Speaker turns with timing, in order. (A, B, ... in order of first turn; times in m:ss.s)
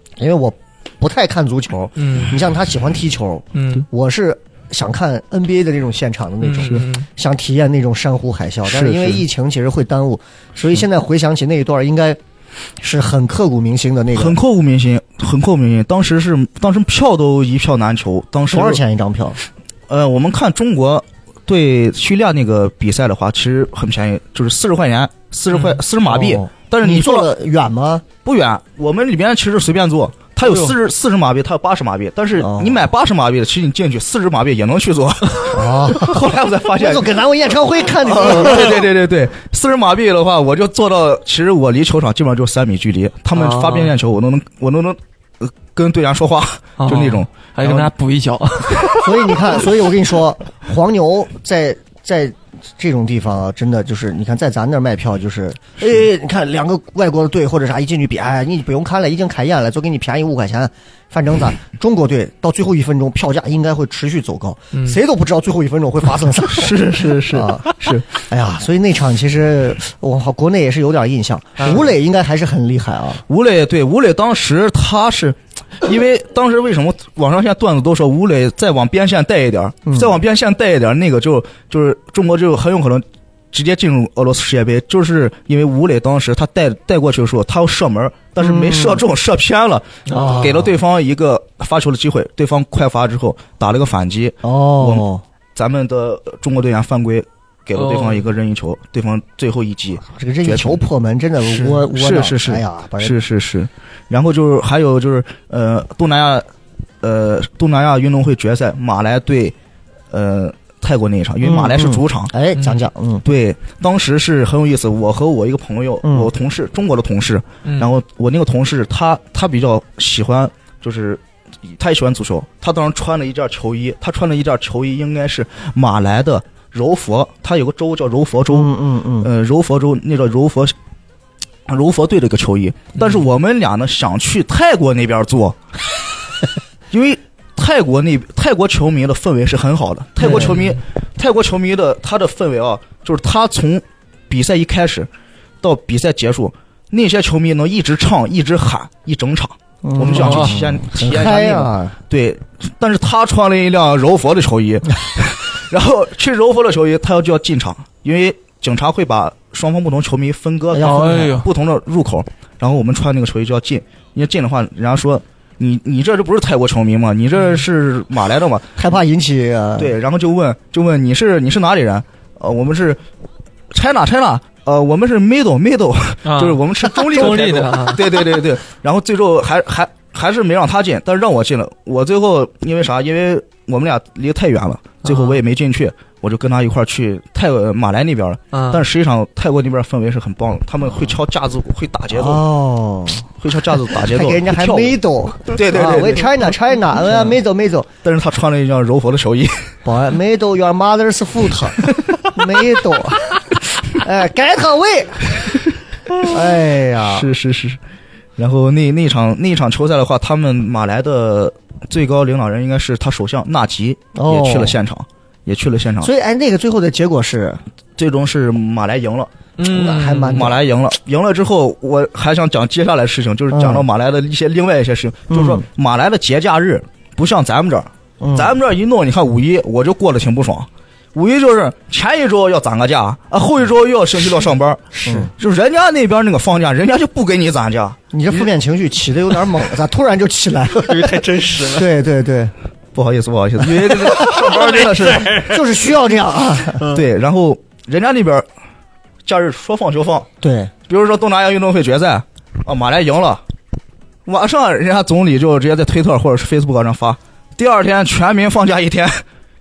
0:00.2-0:12.2 A
0:02.0-0:02.3 B
0:03.5-0:03.8 B
0:06.4-0:07.0 B
0:06.6-0:06.8 C
0:08.6-0:09.2 C
0:12.8-0:14.4 A
0:14.1-0:18.8 C
0:18.5-0:19.4 A
0:19.9-0:27.3 C
0:25.5-0:25.8 B
0:26.1-0:28.0 A
0:28.2-0:37.2 C
0:32.4-0:32.8 A
0:35.5-0:36.2 A
0:36.8-0:38.8 A
0:38.0-0:47.9 C
0:43.3-0:43.9 B
0:46.8-0:49.6 B
0:49.0-1:13.2 A
1:06.5-1:08.1 C
1:13.3-1:40.8 C
1:19.8-1:20.2 A
1:28.4-1:29.0 A
1:30.1-1:30.5 B
1:30.1-1:30.7 A
1:34.4-1:35.2 A
1:37.8-1:38.2 B
1:40.0-1:43.1 A
1:41.6-1:46.4 C
1:47.0-1:49.5 C
1:50.1-1:52.3 C
1:51.4-1:53.2 A
1:53.2-2:10.7 C
1:56.0-1:56.3 A
1:57.6-1:57.9 B
2:08.5-2:09.3 A
2:11.7-2:15.6 C
2:16.9-2:25.1 C
2:20.2-2:20.8 B
2:20.2-2:20.5 A
2:25.6-2:48.8 C
2:29.8-2:32.0 A
2:30.1-2:30.6 B
2:40.7-2:41.4 A
2:40.8-2:41.5 B
2:48.8-2:49.9 A
2:49.8-2:53.0 C
2:53.7-3:12.4 C
2:56.2-2:58.2 B
3:05.0-3:05.4 B
3:08.5-3:08.8 B
3:12.1-3:13.3 A
3:13.4-3:16.5 C
3:14.0-3:17.9 A
3:18.0-3:19.7 C
3:19.8-3:25.4 A
3:26.2-3:27.3 A
3:27.0-3:27.8 C
3:28.4-3:36.1 C
3:34.1-3:34.8 A
3:36.0-3:37.6 A
3:38.0-3:39.3 C
3:39.6-3:40.5 B
3:39.6-3:40.6 A
3:40.3-3:58.5 C
3:43.5-3:43.8 A
3:45.3-3:45.6 A
3:48.2-3:48.5 A
3:55.0-3:55.3 A
3:58.1-4:02.5 A
4:00.8-4:01.9 B
4:02.9-4:05.4 C
4:03.9-4:05.7 B
4:05.4-4:06.8 A
4:06.9-4:08.4 C
4:09.2-4:10.3 C
4:10.4-4:10.7 A
4:10.9-4:13.4 C
4:14.2-4:19.2 C